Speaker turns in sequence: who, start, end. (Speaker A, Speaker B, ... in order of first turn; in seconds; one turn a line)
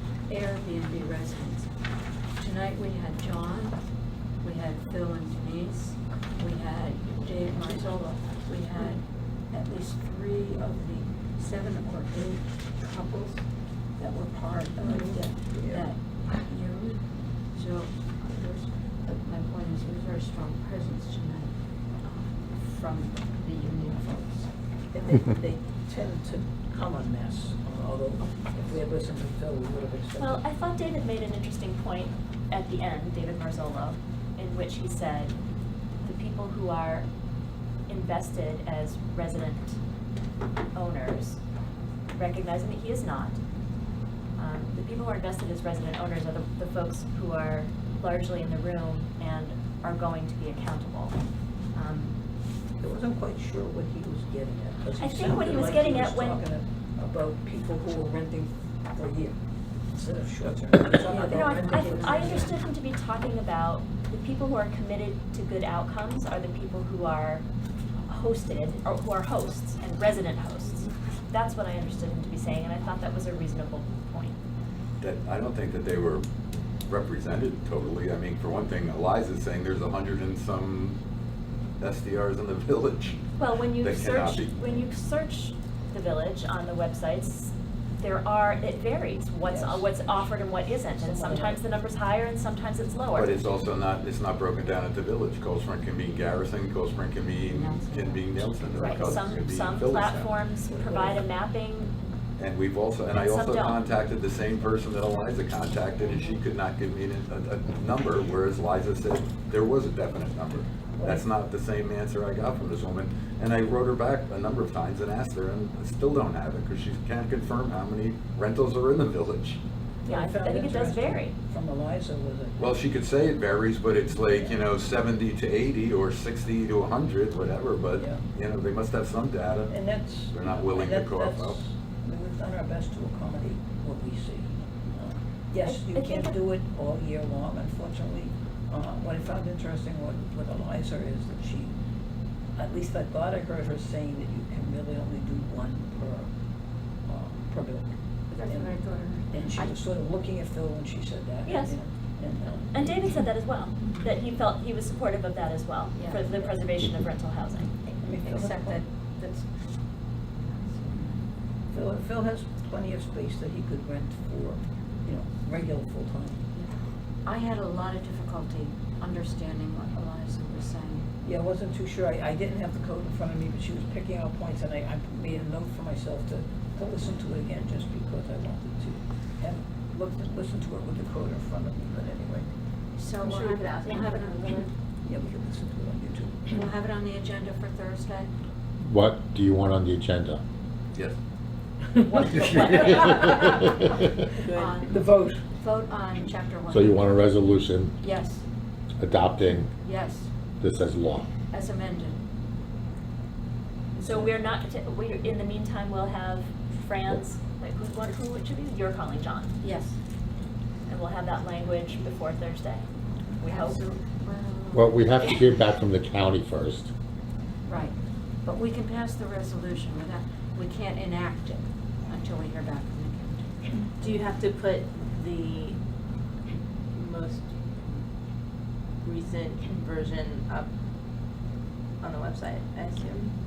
Speaker A: 0.3-1.7
Speaker A: 2.4-3.8
Speaker A: 4.4-24.5
Speaker B: 14.8-15.9
Speaker B: 24.9-30.4
Speaker A: 28.2-28.7
Speaker C: 30.2-35.3
Speaker C: 36.0-37.1
Speaker C: 37.9-39.8
Speaker C: 40.7-41.4
Speaker C: 42.1-43.4
Speaker C: 44.4-51.1
Speaker A: 51.8-52.1
Speaker B: 52.8-59.4
Speaker C: 55.0-56.4
Speaker B: 59.9-62.5
Speaker C: 61.1-67.4
Speaker A: 61.1-62.6
Speaker C: 68.0-74.4
Speaker D: 75.0-76.2
Speaker D: 76.9-81.0
Speaker D: 81.8-83.2
Speaker C: 83.4-93.4
Speaker D: 83.8-84.8
Speaker B: 89.4-90.3
Speaker B: 90.9-91.6
Speaker D: 93.1-100.4
Speaker A: 97.4-99.2
Speaker C: 98.7-102.0
Speaker B: 100.7-101.2
Speaker D: 102.4-119.6
Speaker C: 103.1-103.8
Speaker B: 111.0-111.2
Speaker C: 120.0-121.3
Speaker B: 120.0-122.8
Speaker D: 122.6-129.8
Speaker B: 124.2-124.5
Speaker B: 127.9-128.2
Speaker B: 129.7-141.7
Speaker D: 130.3-131.6
Speaker C: 135.6-136.3
Speaker B: 142.6-146.3
Speaker B: 147.0-148.7
Speaker A: 148.3-149.8
Speaker B: 149.3-152.9
Speaker C: 151.4-151.8
Speaker C: 152.7-157.7
Speaker A: 155.9-156.3
Speaker B: 158.0-158.8
Speaker A: 158.1-159.5
Speaker A: 160.3-161.2
Speaker B: 161.7-166.4
Speaker A: 167.2-171.1
Speaker B: 171.2-182.5
Speaker A: 182.9-184.7
Speaker E: 183.2-184.7
Speaker B: 185.0-186.7
Speaker A: 186.5-188.3
Speaker F: 188.8-190.4
Speaker C: 191.9-193.4
Speaker E: 194.3-194.9
Speaker A: 194.5-197.1
Speaker B: 194.8-195.4
Speaker F: 196.7-197.9
Speaker A: 198.0-198.4
Speaker F: 199.0-199.7
Speaker A: 199.8-200.3
Speaker F: 200.6-201.3
Speaker A: 201.5-202.2
Speaker C: 204.0-209.6
Speaker A: 209.6-210.0
Speaker C: 210.9-212.9
Speaker A: 213.4-214.9
Speaker C: 213.4-213.8
Speaker F: 214.7-216.9
Speaker A: 217.7-224.1
Speaker E: 224.0-225.8
Speaker E: 226.9-227.6
Speaker E: 229.0-230.7
Speaker E: 232.0-233.3